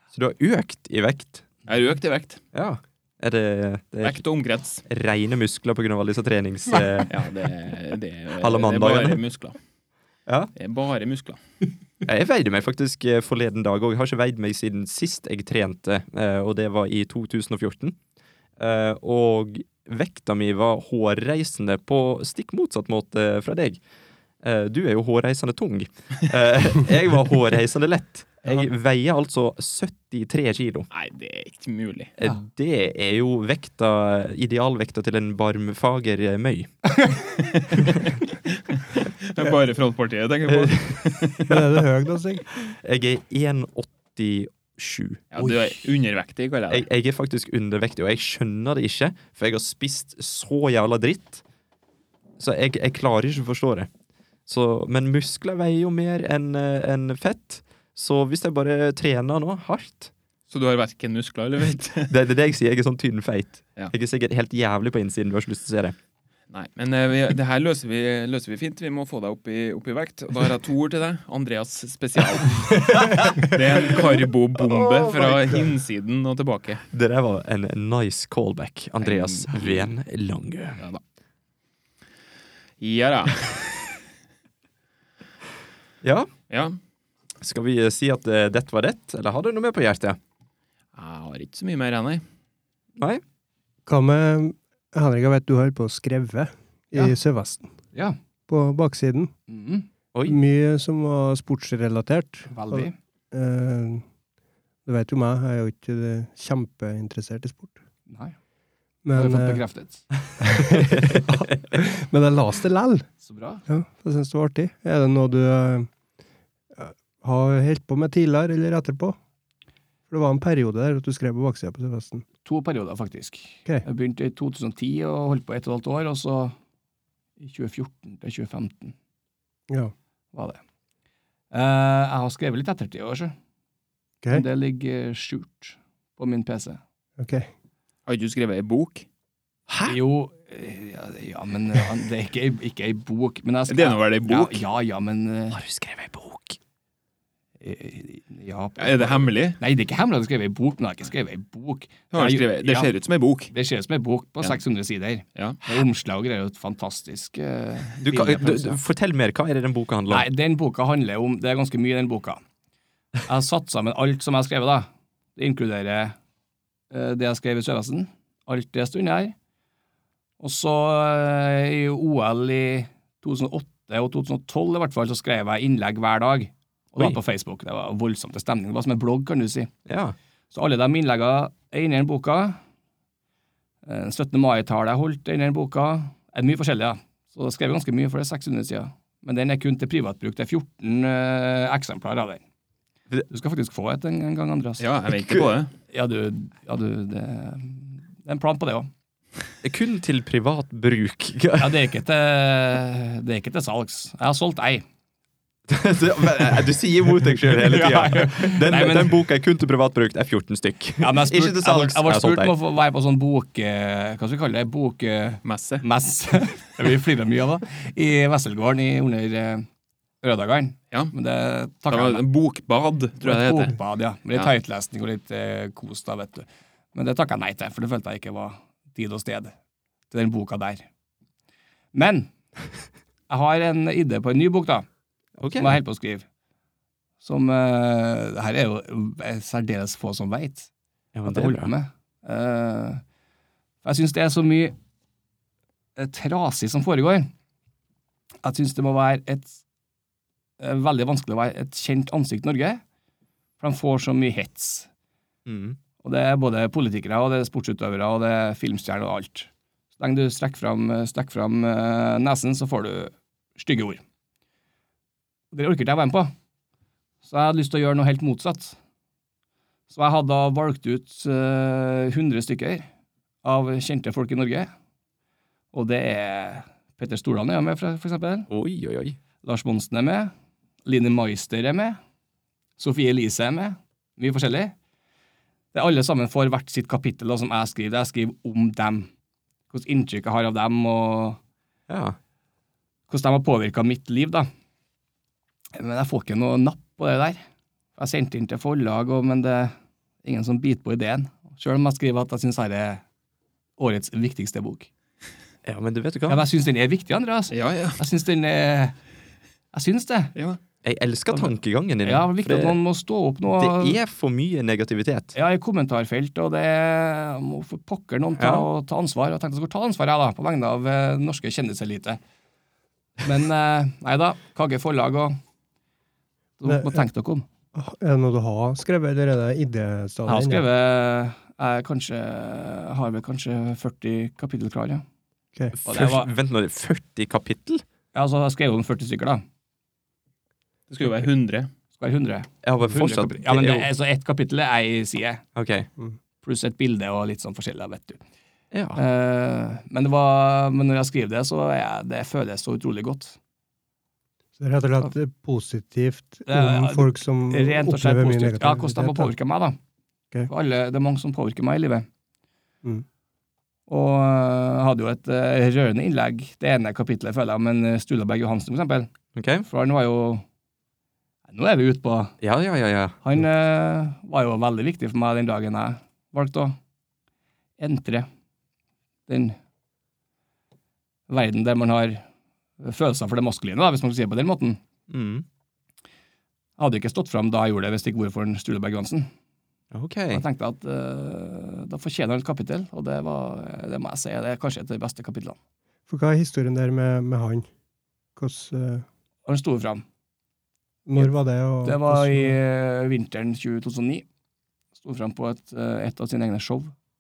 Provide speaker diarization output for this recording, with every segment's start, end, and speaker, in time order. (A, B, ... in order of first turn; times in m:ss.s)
0:00.1-0:01.5 A
0:01.7-0:02.4 B
0:02.5-0:04.2 A
0:04.0-0:04.8 B
0:04.8-0:07.2 A
0:07.1-0:09.6 B
0:08.4-0:09.2 A
0:10.6-0:11.4 B
0:12.0-0:18.0 A
0:18.6-0:23.8 A
0:24.4-0:30.9 A
0:30.9-0:32.1 B
0:32.2-0:36.7 A
0:37.4-0:41.7 B
0:40.5-0:41.2 A
0:41.4-0:42.4 C
0:42.6-0:45.2 A
0:45.3-0:46.8 B
0:46.7-0:51.4 A
0:52.4-0:53.9 A
0:54.5-1:00.1 A
1:00.5-1:02.1 B
1:02.1-1:06.0 A
1:06.5-1:16.8 B
1:12.9-1:13.3 A
1:14.6-1:15.6 A
1:16.9-1:20.8 A
1:19.0-1:19.9 B
1:22.8-1:23.9 B
1:26.0-1:26.3 A
1:26.5-1:26.8 B
1:27.4-1:30.2 A
1:30.9-1:32.2 B
1:33.0-1:33.2 A
1:33.8-1:37.7 C
1:38.5-1:39.3 C
1:39.5-1:39.9 D
1:40.2-1:44.0 C
1:42.5-1:42.9 D
1:44.8-1:47.7 C
1:48.1-1:48.4 D
1:49.0-1:49.6 C
1:49.2-1:50.0 D
1:50.4-1:53.1 C
1:50.7-1:51.5 A
1:53.2-1:53.6 D
1:53.7-1:55.9 C
1:56.8-1:59.2 C
2:00.1-2:02.2 C
2:02.4-2:06.5 D
2:07.4-2:08.9 D
2:10.3-2:10.6 D
2:11.5-2:13.3 D
2:14.3-2:16.8 D
2:17.2-2:17.5 C
2:18.1-2:19.0 B
2:19.8-2:25.6 D
2:23.7-2:24.6 B
2:25.5-2:26.6 A
2:27.6-2:32.9 D
2:28.8-2:29.6 B
2:32.1-2:33.5 B
2:33.5-2:38.8 D
2:35.3-2:35.6 B
2:38.0-2:40.2 A
2:40.1-2:42.4 D
2:43.2-2:46.2 D
2:46.9-2:49.3 D
2:50.4-2:59.7 D
2:59.9-3:00.2 A
3:00.5-3:02.6 D
3:03.8-3:12.4 D
3:13.3-3:14.8 D
3:14.8-3:15.7 B
3:15.9-3:18.9 D
3:19.6-3:21.8 A
3:21.6-3:24.8 D
3:25.7-3:32.5 A
3:27.5-3:29.2 D
3:31.0-3:39.6 D
3:35.4-3:35.8 B
3:40.2-3:42.2 D
3:41.9-3:43.8 B
3:43.2-3:49.5 D
3:50.1-3:50.8 D
3:51.9-3:52.3 D
3:53.3-3:54.9 D
3:55.4-3:55.8 A
3:55.5-3:56.2 D
3:57.2-4:00.7 D
4:01.1-4:01.7 A
4:01.2-4:03.0 D
4:03.8-4:04.7 D
4:06.0-4:07.3 D
4:08.4-4:09.6 D
4:10.6-4:12.8 D
4:13.6-4:14.9 D
4:15.4-4:15.8 A
4:16.0-4:24.0 D
4:25.5-4:26.3 D
4:27.2-4:28.8 D
4:29.9-4:32.9 D
4:33.4-4:34.7 D
4:35.7-4:38.5 D
4:38.5-4:39.2 A
4:39.4-4:40.3 D
4:40.8-4:42.0 D
4:42.8-4:44.7 D
4:45.7-4:49.1 D
4:49.7-4:51.4 D
4:51.9-4:52.2 A
4:53.1-4:54.5 D
4:55.7-4:57.4 D
4:58.0-5:03.0 D
5:03.8-5:04.9 D
5:05.6-5:06.4 A
5:06.3-5:09.0 D
5:07.5-5:08.0 B
5:09.7-5:10.3 D
5:10.8-5:12.8 A
5:12.0-5:14.0 D
5:13.6-5:15.3 A
5:15.3-5:22.2 D
5:18.4-5:18.7 A
5:23.2-5:25.4 D
5:26.6-5:27.4 D
5:26.6-5:27.0 C
5:27.7-5:30.6 C
5:30.3-5:35.0 D
5:35.7-5:37.8 A
5:35.8-5:36.3 D
5:38.1-5:39.4 D
5:40.9-5:41.7 B
5:42.0-5:45.4 D
5:42.6-5:43.9 A
5:45.5-5:45.9 A
5:46.4-5:48.2 D
5:48.7-5:49.0 A
5:49.0-5:53.4 D
5:54.6-5:59.3 C
5:56.5-5:59.8 D
6:00.5-6:02.1 D
6:03.9-6:09.1 D
6:09.3-6:09.6 A
6:09.7-6:10.4 D
6:11.5-6:12.4 D
6:12.4-6:13.2 A
6:13.2-6:16.8 D
6:17.8-6:18.3 D
6:19.3-6:19.6 D
6:21.3-6:22.2 D
6:22.8-6:24.8 D
6:25.1-6:25.4 A
6:26.8-6:29.3 D
6:29.9-6:30.4 A
6:30.3-6:35.6 D
6:36.1-6:37.7 C
6:38.4-6:39.0 C
6:39.4-6:40.0 D
6:41.0-6:42.6 C
6:41.8-6:44.2 D
6:45.0-6:46.9 D